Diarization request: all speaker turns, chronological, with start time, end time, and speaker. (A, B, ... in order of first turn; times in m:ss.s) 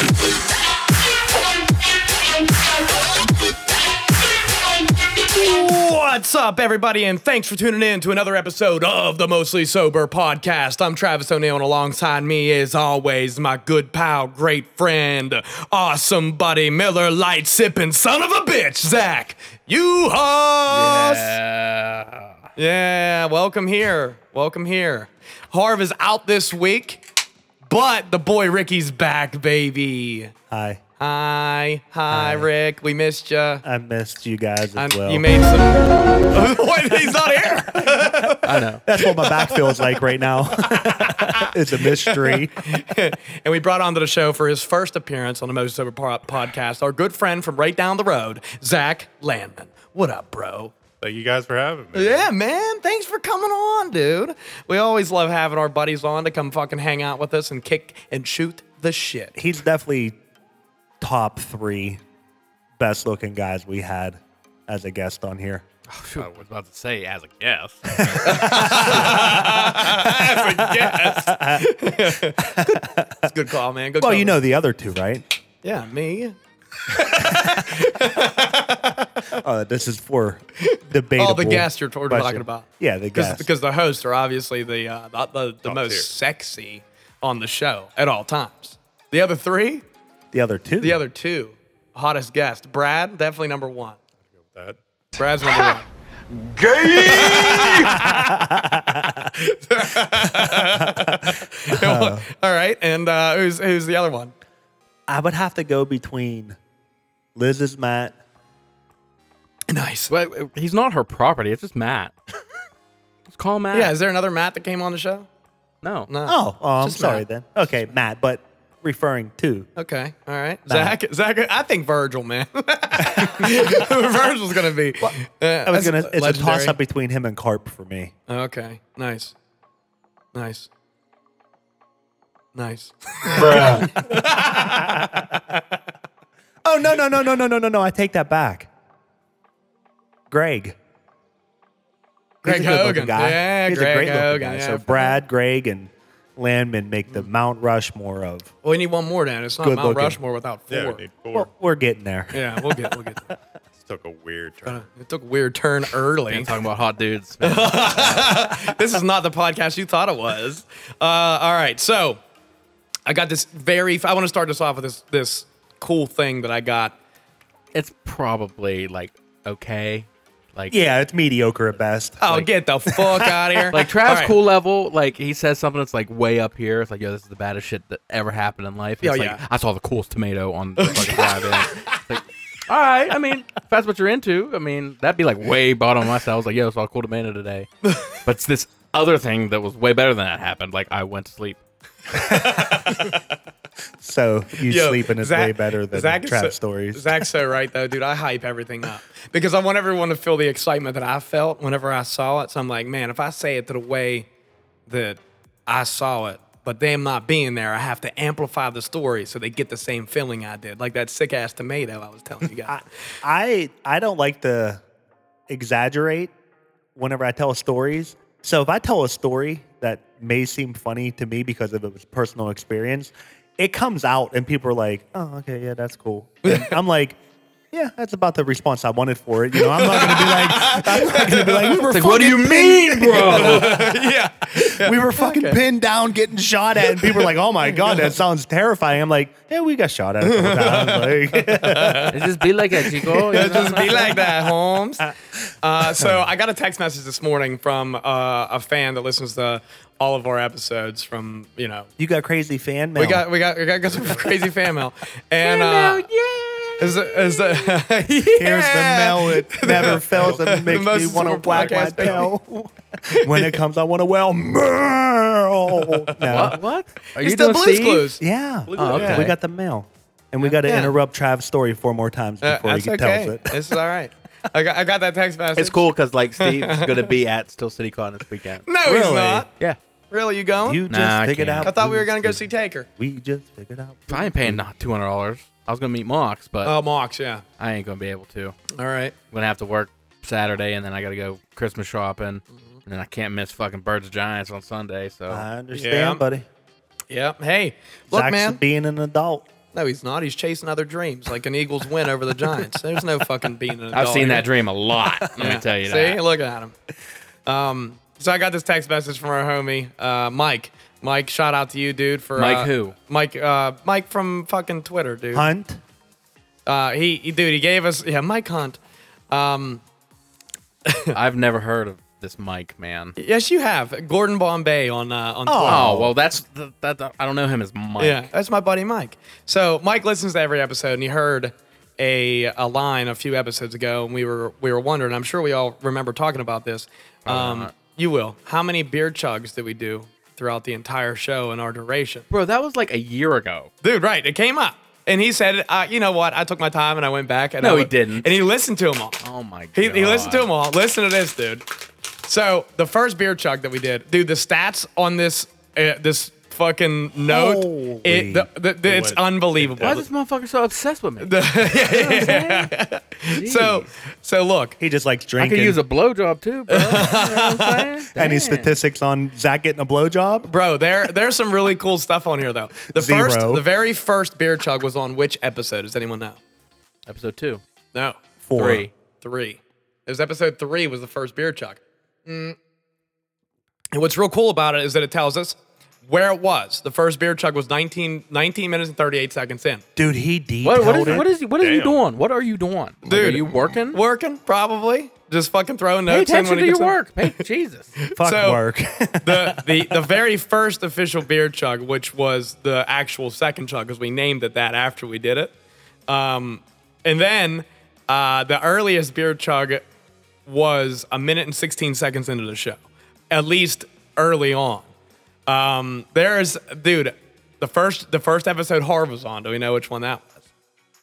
0:05.3-0:21.4 A
0:20.7-0:22.4 B
0:22.6-0:27.0 A
0:27.6-0:30.3 A
0:30.5-0:30.8 C
0:31.0-0:33.6 A
0:32.1-0:32.5 C
0:33.6-0:35.3 C
0:34.8-0:40.0 A
0:37.8-0:42.6 C
0:38.4-0:38.8 B
0:40.7-0:50.7 A
0:51.0-0:52.3 D
0:51.9-0:59.4 A
0:59.4-1:00.2 C
1:01.0-1:02.0 C
1:02.8-1:05.6 C
1:05.9-1:08.8 B
1:08.0-1:13.3 C
1:08.2-1:14.4 A
1:14.0-1:15.2 C
1:15.6-1:19.0 A
1:17.2-1:17.6 C
1:19.3-1:23.5 C
1:20.6-1:29.8 A
1:25.6-1:26.1 D
1:30.3-1:31.0 C
1:30.8-1:34.0 A
1:34.4-1:34.8 D
1:35.2-1:35.9 A
1:36.8-1:38.4 A
1:37.6-1:39.3 C
1:39.3-1:44.3 A
1:40.2-1:42.2 C
1:45.1-1:46.6 C
1:47.3-1:48.2 C
1:49.7-1:50.1 A
1:50.1-1:52.1 B
1:53.3-1:53.9 B
1:53.7-1:55.3 A
1:55.8-1:56.1 B
1:56.1-1:57.2 A
1:56.2-1:59.7 C
1:59.8-2:06.8 A
2:00.7-2:01.0 C
2:03.0-2:03.3 C
2:05.0-2:08.1 C
2:08.3-2:09.3 A
2:10.3-2:10.7 A
2:12.5-2:14.9 A
2:13.4-2:15.6 C
2:16.6-2:18.7 C
2:20.3-2:20.8 C
2:22.4-2:28.5 C
2:22.4-2:25.2 A
2:28.6-2:31.0 A
2:29.6-2:30.2 C
2:30.7-2:31.5 D
2:31.3-2:33.4 C
2:32.3-2:33.2 A
2:33.8-2:34.8 D
2:34.6-2:36.5 A
2:36.3-2:38.4 B
2:37.4-2:42.2 A
2:43.0-2:46.9 A
2:47.7-2:50.8 B
2:50.7-2:52.2 C
2:52.2-2:54.3 A
2:52.8-2:53.7 C
2:53.7-3:11.6 B
2:59.0-2:59.4 A
3:00.8-3:01.4 A
3:12.1-3:13.0 C
3:12.5-3:13.2 A
3:14.0-3:17.2 C
3:14.6-3:24.3 A
3:24.9-3:32.8 A
3:32.7-3:34.8 C
3:35.5-3:36.3 C
3:36.9-3:47.2 C
3:46.4-3:46.8 A
3:47.7-3:54.0 C
3:49.6-3:51.8 A
3:51.9-3:53.8 B
3:53.3-3:55.6 A
3:54.6-4:02.2 C
3:57.0-3:58.1 A
4:00.2-4:02.2 A
4:02.1-4:04.2 B
4:02.8-4:11.9 A
4:03.3-4:03.6 C
4:05.8-4:06.2 C
4:12.0-4:13.2 C
4:13.0-4:16.0 A
4:15.4-4:17.8 B
4:16.8-4:22.3 A
4:18.3-4:26.6 C
4:20.1-4:20.8 D
4:21.5-4:22.3 D
4:23.1-4:23.5 A
4:26.2-4:26.5 A
4:26.2-4:28.2 B
4:27.2-4:28.2 A
4:28.2-4:33.6 C
4:28.6-4:29.3 D
4:28.8-4:29.3 B
4:28.9-4:29.2 A
4:30.6-4:30.9 A
4:32.4-4:35.8 A
4:35.6-4:38.6 B
4:36.4-4:37.1 A
4:38.7-4:39.5 A
4:38.8-4:39.5 C
4:40.1-4:40.8 A
4:40.6-4:44.6 C
4:40.9-4:41.7 B
4:41.6-4:42.9 A
4:44.1-4:46.8 B
4:46.6-4:47.4 A
4:47.6-4:48.6 B
4:48.7-4:49.1 A
4:49.3-4:55.4 B
4:55.3-4:56.4 C
4:55.7-4:56.2 A
4:57.1-4:58.6 A
4:58.1-4:59.5 C
4:59.7-5:04.5 A
5:03.9-5:06.2 B
5:05.4-5:06.7 A
5:07.5-5:15.5 A
5:12.4-5:12.9 B
5:15.3-5:15.8 C
5:16.6-5:18.8 A
5:19.3-5:19.8 A
5:20.9-5:21.1 A
5:21.1-5:23.2 B
5:23.2-5:26.0 A
5:25.4-5:26.1 C
5:25.6-5:28.2 B
5:28.0-5:42.3 A
5:37.2-5:37.7 B
5:42.3-5:43.7 B
5:43.8-5:49.2 A
5:47.6-5:48.3 B
5:49.2-5:50.5 B
5:49.7-5:51.6 A
5:52.2-6:00.0 A
5:57.3-5:58.5 C
5:58.8-6:00.0 D
5:59.8-6:02.7 B
6:01.2-6:04.8 A
6:03.3-6:03.9 B
6:04.8-6:05.8 C
6:05.4-6:08.8 B
6:06.7-6:07.9 A
6:08.1-6:10.5 C
6:10.5-6:16.4 A
6:12.9-6:13.6 C
6:17.1-6:17.6 B
6:17.9-6:22.6 A
6:18.4-6:18.9 C
6:18.5-6:18.9 B
6:23.9-6:29.8 A
6:30.0-6:31.3 C
6:30.6-6:34.0 B
6:31.0-6:32.0 D
6:33.0-6:37.4 A
6:36.1-6:38.0 B
6:38.0-6:38.6 A
6:38.1-6:40.1 C
6:39.2-6:45.5 A
6:46.1-6:49.8 A
6:50.4-6:52.8 A
6:53.3-6:54.9 A
6:55.5-7:00.4 A